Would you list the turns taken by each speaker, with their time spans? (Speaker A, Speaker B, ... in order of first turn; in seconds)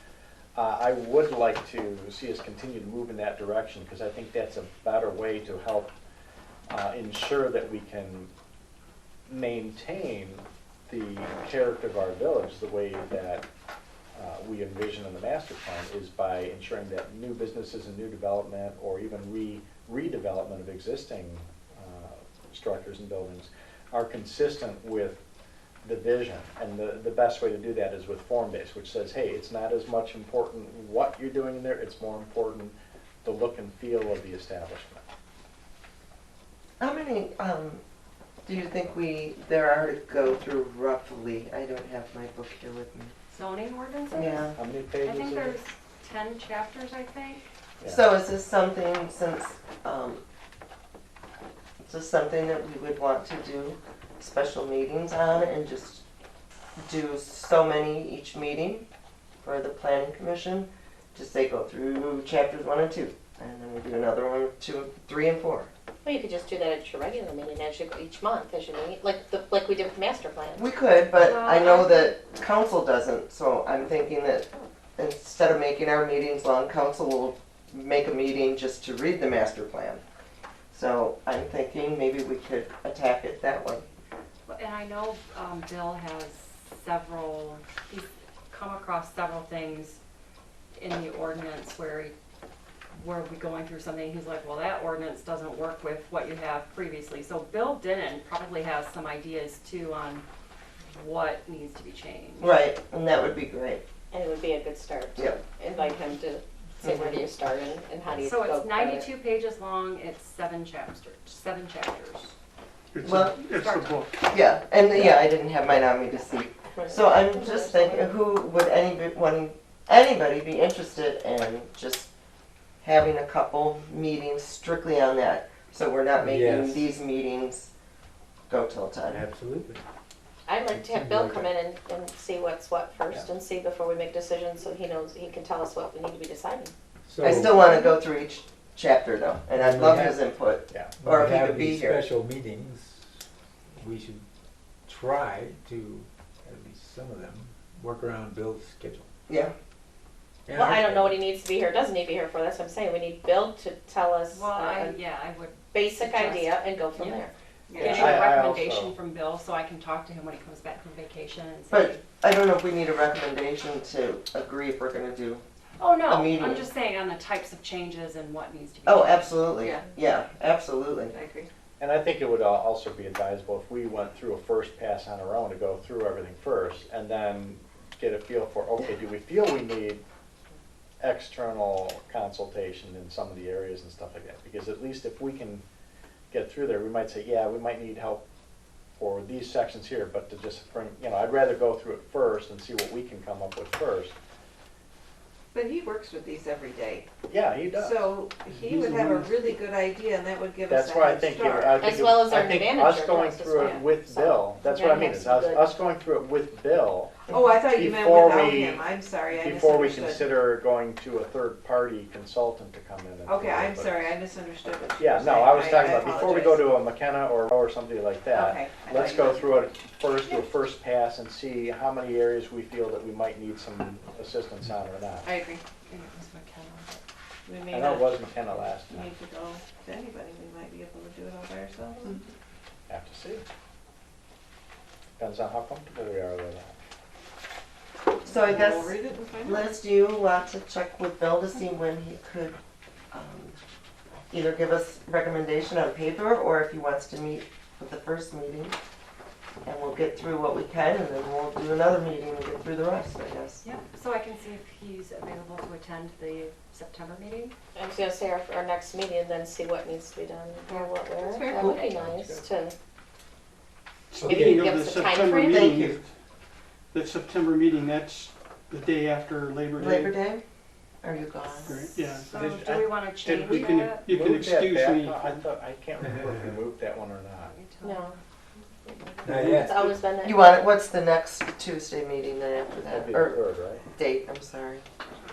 Speaker A: 0.5-5.9, 6.7-8.3, 9.3-13.4, 14.1-25.2, 25.8-35.0, 44.5-45.5, 157.8-158.9, 171.8-180.0, 181.0-185.6, 186.3-188.2, 189.0-194.1, 197.3-198.1, 200.7-207.2, 207.7-214.1, 215.0-225.3, 227.7-229.1, 232.9-233.4, 235.2-236.8, 261.6-262.5, 272.3-277.5, 282.9-283.8
Speaker B: 36.8-37.8, 38.4-43.1, 44.1-44.6, 47.8-50.2, 51.8-56.0, 56.8-58.9, 59.4-65.7, 70.5-80.0, 80.7-83.8, 102.4-103.8, 106.8-107.2, 113.0-113.4, 114.3-122.1, 122.8-127.7, 128.5-129.2, 137.2-142.0, 149.3-149.5, 161.7-165.4, 166.0-166.7, 168.8-171.1, 238.2-242.6, 243.1-243.6, 244.3-248.8, 249.6-253.6, 265.5-266.0, 269.8-270.4, 271.0-272.0, 280.2-283.4, 283.9-284.8
Speaker C: 43.3-47.4, 71.1-72.2, 84.5-90.0, 90.7-92.1, 92.9-100.2, 100.9-102.6, 108.2-112.3, 113.3-114.1, 154.3-162.0, 165.8-169.5, 225.9-227.0, 253.6-257.5, 272.2-274.0, 277.4-278.2
Speaker D: 66.0-70.6, 104.1-109.1, 116.8-118.1, 130.5-136.7, 150.5-154.9, 155.7-157.3, 201.8-205.7, 257.7-262.7, 264.2-265.8, 277.8-278.1, 278.8-280.5
Speaker E: 112.9-114.1, 264.1-266.1, 266.9-270.1, 271.6-272.3, 273.2-275.4
Speaker F: 126.2-126.8, 129.1-129.8, 130.7-131.5, 137.1-137.6, 139.5-140.2, 141.0-143.1, 143.8-144.2, 144.9-149.1, 150.5-151.1, 264.2-264.6, 279.2-279.8
Speaker G: 157.7-158.2, 169.6-169.8, 171.1-171.5, 195.5-197.1, 197.7-202.1, 207.3-210.3, 213.2-216.8, 218.3-219.7, 225.2-225.6, 227.5-228.1, 228.9-232.2, 238.3-239.7, 260.7-261.8